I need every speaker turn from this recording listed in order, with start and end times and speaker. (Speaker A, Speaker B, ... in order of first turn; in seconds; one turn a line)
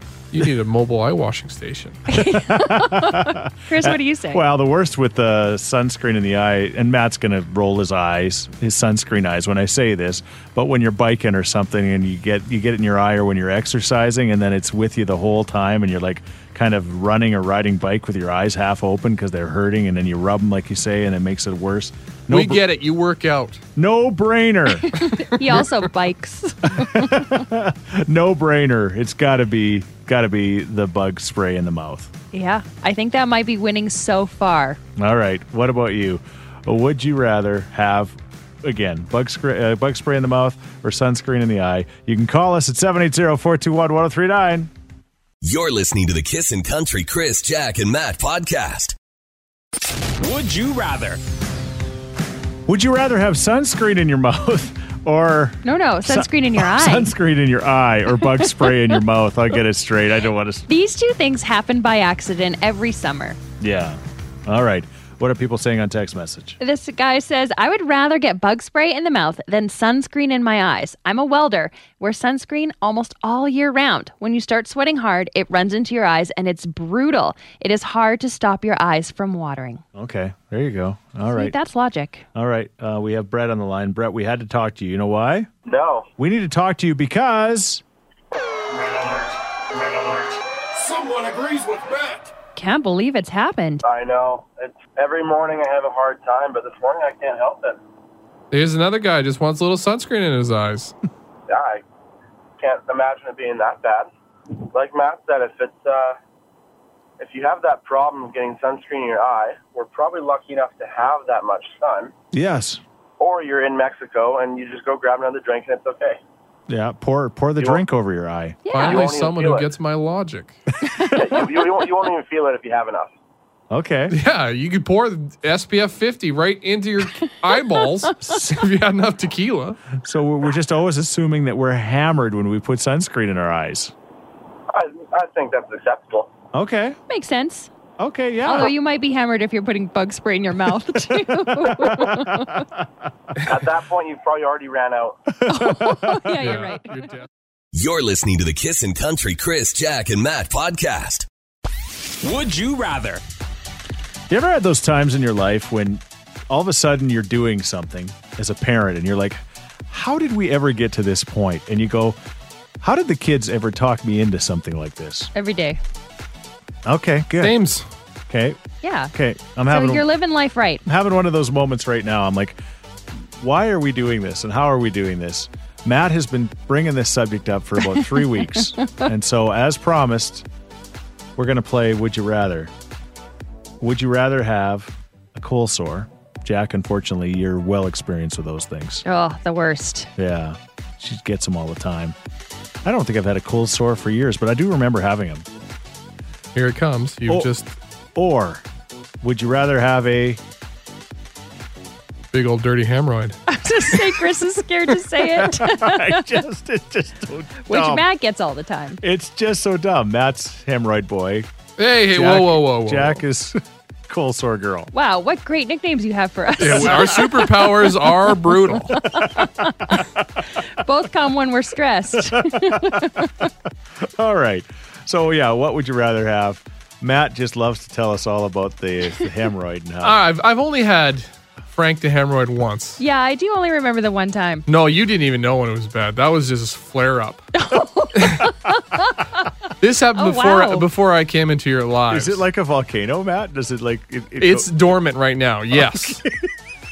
Speaker A: 0.3-2.0
Speaker B: 2.1-4.4
Speaker C: 2.1-22.6
Speaker A: 22.3-23.6
Speaker C: 23.8-25.0
Speaker B: 24.9-27.4
Speaker C: 26.7-32.1
Speaker B: 32.3-34.8
Speaker C: 35.0-44.7
Speaker D: 45.4-49.0
Speaker E: 50.2-51.2
Speaker C: 52.7-60.7
Speaker B: 55.6-57.1
Speaker B: 58.2-59.0
Speaker B: 60.7-63.4
Speaker C: 63.6-66.6
Speaker B: 66.6-79.8
Speaker C: 80.0-81.6
Speaker B: 81.3-82.2
Speaker C: 82.3-85.5
Speaker F: 85.7-86.1
Speaker C: 86.2-87.8
Speaker A: 91.0-91.8
Speaker B: 92.6-93.8
Speaker F: 93.8-97.8
Speaker A: 98.5-100.9
Speaker F: 101.5-101.8
Speaker F: 102.6-104.1
Speaker F: 104.7-106.2
Speaker F: 107.2-112.1
Speaker C: 112.3-112.8
Speaker F: 113.2-116.2
Speaker C: 116.7-118.6
Speaker F: 117.6-117.8
Speaker B: 118.7-119.1
Speaker A: 118.7-120.6
Speaker F: 118.9-119.7
Speaker C: 120.9-121.4
Speaker F: 121.2-123.1
Speaker C: 123.7-124.2
Speaker A: 124.1-129.8
Speaker C: 130.0-133.9
Speaker F: 134.7-136.3
Speaker C: 136.5-137.0
Speaker B: 137.1-137.7
Speaker C: 138.0-138.7
Speaker B: 138.4-142.7
Speaker C: 141.1-142.9
Speaker F: 143.5-145.2
Speaker C: 145.4-146.3
Speaker B: 145.5-146.9
Speaker A: 146.4-147.3
Speaker D: 147.7-151.3
Speaker E: 152.2-153.2
Speaker C: 154.3-162.2
Speaker C: 162.8-165.3
Speaker B: 165.3-165.8
Speaker C: 166.8-167.6
Speaker A: 167.4-167.8
Speaker C: 168.3-168.6
Speaker B: 168.8-169.1
Speaker C: 169.1-170.1
Speaker B: 169.7-170.8
Speaker C: 170.8-172.6
Speaker C: 173.1-180.5
Speaker B: 178.0-179.0
Speaker C: 181.4-182.7
Speaker C: 183.8-189.0
Speaker B: 189.1-190.1
Speaker C: 190.2-192.2
Speaker C: 192.8-195.5
Speaker A: 196.6-197.8
Speaker C: 198.2-198.6
Speaker C: 199.2-200.4
Speaker A: 202.3-203.4
Speaker B: 203.5-206.4
Speaker C: 205.2-208.1
Speaker B: 207.7-209.0
Speaker C: 209.0-211.5
Speaker A: 211.8-213.2
Speaker C: 212.1-214.9
Speaker B: 214.9-217.8
Speaker A: 216.6-219.1
Speaker C: 216.6-217.2
Speaker B: 218.9-223.3
Speaker C: 222.3-223.2
Speaker C: 224.0-230.2
Speaker A: 230.0-233.0
Speaker B: 233.0-234.7
Speaker A: 234.7-237.5
Speaker B: 237.6-239.2
Speaker A: 238.2-238.5
Speaker A: 239.8-242.4
Speaker B: 240.2-240.9
Speaker C: 242.1-244.7
Speaker A: 244.4-246.2
Speaker C: 245.7-246.5